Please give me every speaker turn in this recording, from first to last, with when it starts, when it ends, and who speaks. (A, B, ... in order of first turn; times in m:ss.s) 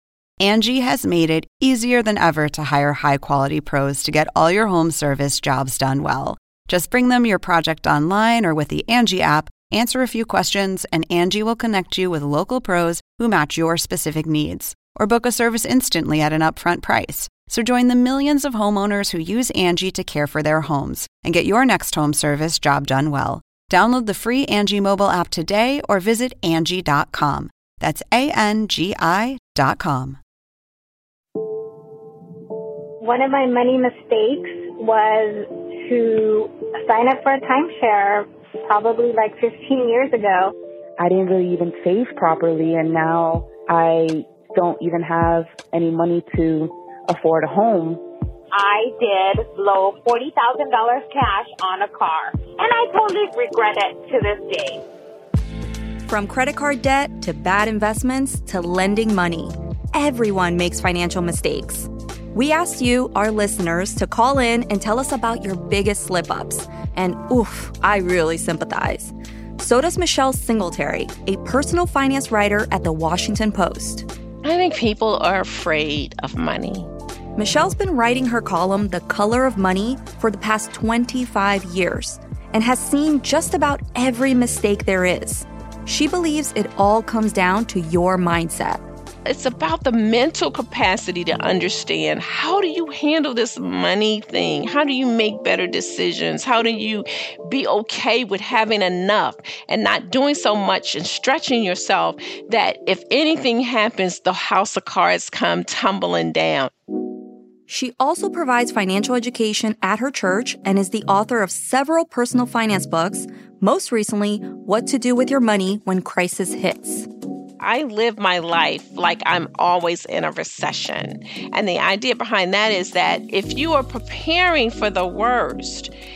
0:00.4-0:30.2 A
0:33.0-0:40.5 B
0:41.0-0:48.0 C
0:48.5-0:54.8 D
0:56.1-1:14.1 E
1:14.4-1:16.9 F
1:17.4-1:28.8 E
1:29.2-1:46.7 F
1:47.7-1:57.1 E
1:57.6-2:05.9 F